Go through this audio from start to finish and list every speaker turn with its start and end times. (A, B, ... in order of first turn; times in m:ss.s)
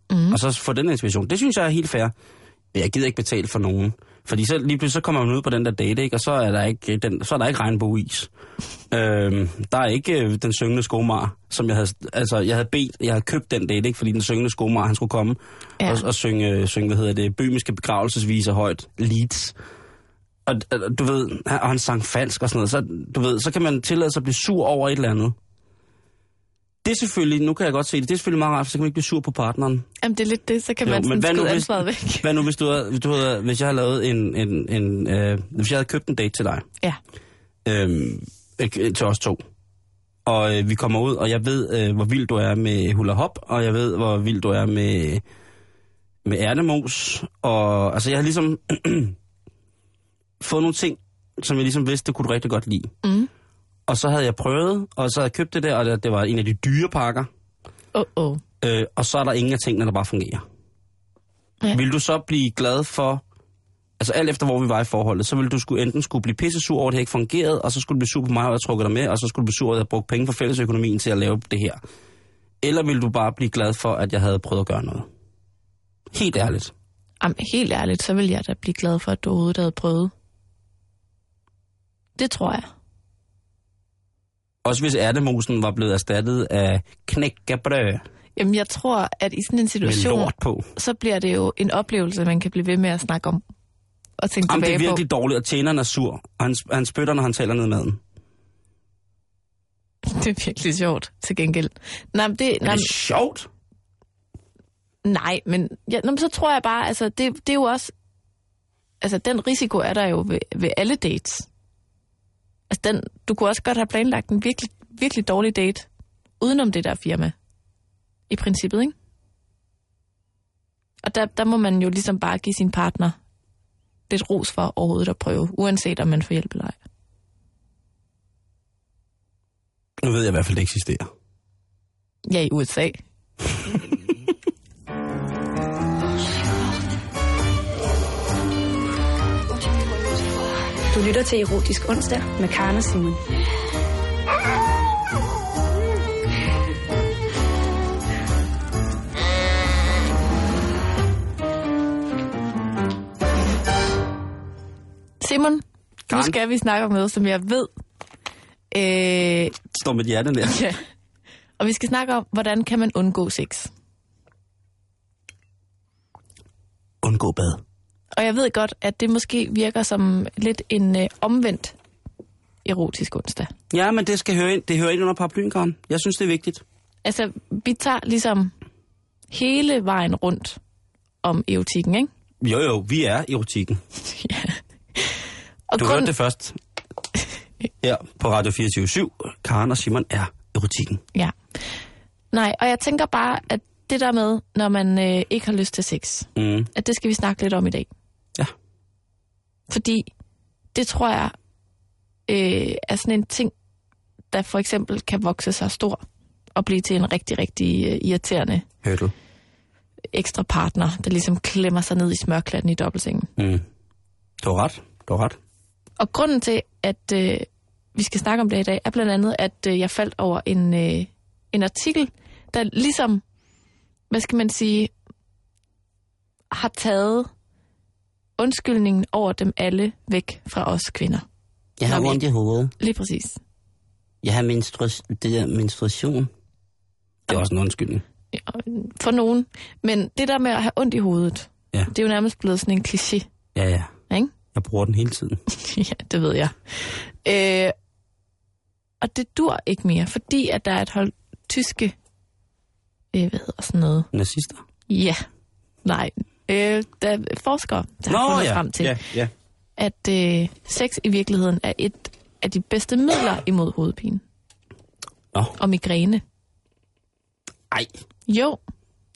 0:00.1-0:00.4 A
0:00.3-0:02.1 B
0:02.7-0:08.3 B
0:08.9-0:19.5 B
0:15.8-0:16.0 A
0:20.4-0:25.3 B
0:26.8-0:29.9 B
0:30.0-0:32.3 A
0:30.8-0:36.6 B
0:37.6-0:39.4 B
0:40.2-0:45.2 B
0:46.2-0:49.2 B
0:50.4-0:52.9 B
0:53.0-0:53.3 A
0:53.9-0:57.3 B
0:57.9-0:58.4 A
0:58.6-1:00.4 B
1:01.7-1:03.2 B
1:04.0-1:11.8 B
1:12.6-1:15.1 B
1:16.1-1:16.7 B
1:17.2-1:20.1 A
1:22.2-1:22.7 A
1:24.6-1:28.0 B
1:28.4-1:33.4 A
1:29.8-1:30.7 B
1:34.2-1:35.0 A
1:34.4-1:38.0 B
1:40.0-1:42.9 A
1:42.6-1:43.5 B
1:45.0-1:47.9 A
1:49.0-1:51.5 A
1:52.7-1:55.9 A
1:56.4-1:57.3 A
1:58.3-1:58.9 A
2:01.0-2:03.2 A
2:04.1-2:06.8 A
2:10.0-2:11.1 B
2:12.3-2:13.0 A
2:20.9-2:23.2 C
2:35.2-2:37.7 A
2:36.1-2:36.4 B
2:38.7-2:39.5 A
2:39.7-2:40.6 B
2:40.4-2:40.8 A
2:41.6-2:43.7 A
2:47.0-2:47.6 B
2:48.1-2:51.8 A
2:52.6-2:53.5 A
2:53.7-2:56.6 B
2:57.0-2:58.5 A
2:59.3-3:00.6 A
3:01.2-3:02.1 A
3:02.4-3:03.8 B
3:04.1-3:05.2 A
3:05.7-3:06.1 A
3:05.8-3:06.6 B
3:07.8-3:11.0 B
3:12.3-3:17.9 A
3:16.4-3:16.7 B
3:19.7-3:20.1 A
3:20.7-3:21.3 A
3:22.3-3:23.5 A
3:24.3-3:26.0 A
3:26.5-3:28.6 A
3:28.8-3:29.1 B
3:30.1-3:33.3 A
3:33.4-3:33.6 B
3:34.4-3:35.4 B
3:36.0-3:43.2 A
3:44.1-3:44.9 A
3:46.5-3:47.3 A
3:48.4-3:51.2 A
3:51.8-3:52.7 B
3:51.9-3:52.2 A
3:52.8-3:53.4 A
3:54.2-3:56.3 B
3:57.3-3:58.0 B
3:58.3-4:03.2 A
4:03.5-4:03.9 B
4:04.5-4:05.4 B
4:05.5-4:07.7 A
4:09.0-4:11.9 A
4:13.1-4:14.1 A
4:14.1-4:14.6 B
4:14.9-4:15.2 A
4:15.8-4:19.0 A
4:18.1-4:19.3 B
4:19.8-4:24.2 A
4:25.6-4:26.2 A
4:28.3-4:28.6 A